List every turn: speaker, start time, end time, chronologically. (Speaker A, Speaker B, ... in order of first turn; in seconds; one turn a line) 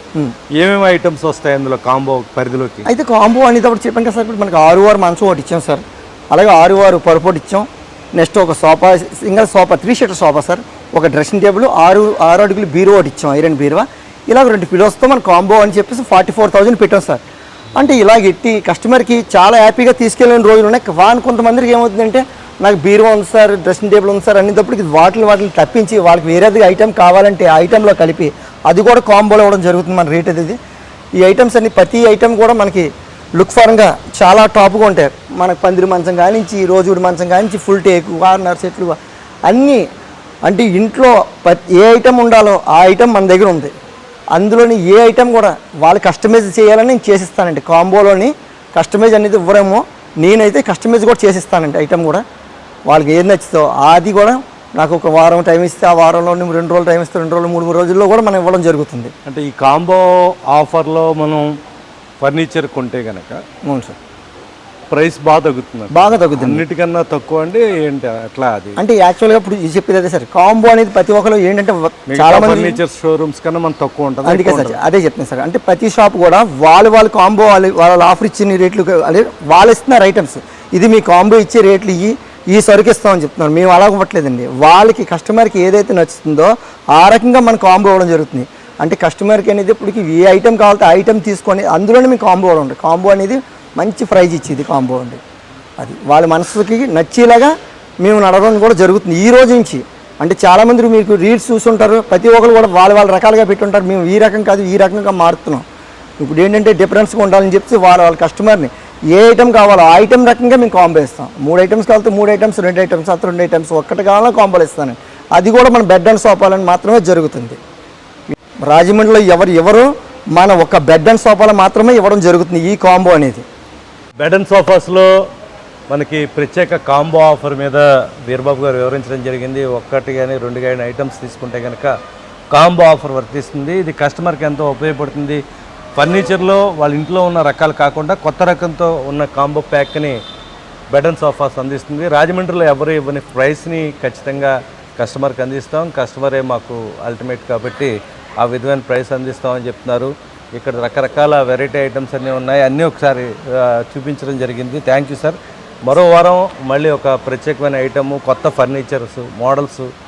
Speaker A: 0.6-2.9
Speaker B: 2.9-17.2
Speaker B: 17.8-30.6
Speaker B: 31.2-39.8
Speaker B: 40.5-43.7
Speaker B: 44.3-52.2
Speaker B: 52.9-59.1
Speaker A: 59.3-61.5
Speaker A: 62.2-63.4
Speaker B: 63.6-64.0
Speaker A: 64.9-68.8
Speaker B: 65.9-66.6
Speaker B: 68.8-72.8
Speaker A: 72.1-74.8
Speaker B: 74.2-95.2
Speaker B: 95.8-105.7
Speaker B: 106.2-117.6
Speaker B: 118.7-123.4
Speaker A: 124.2-125.2
Speaker A: 125.9-131.9
Speaker A: 132.5-135.4
Speaker A: 136.0-140.2
Speaker A: 140.9-159.9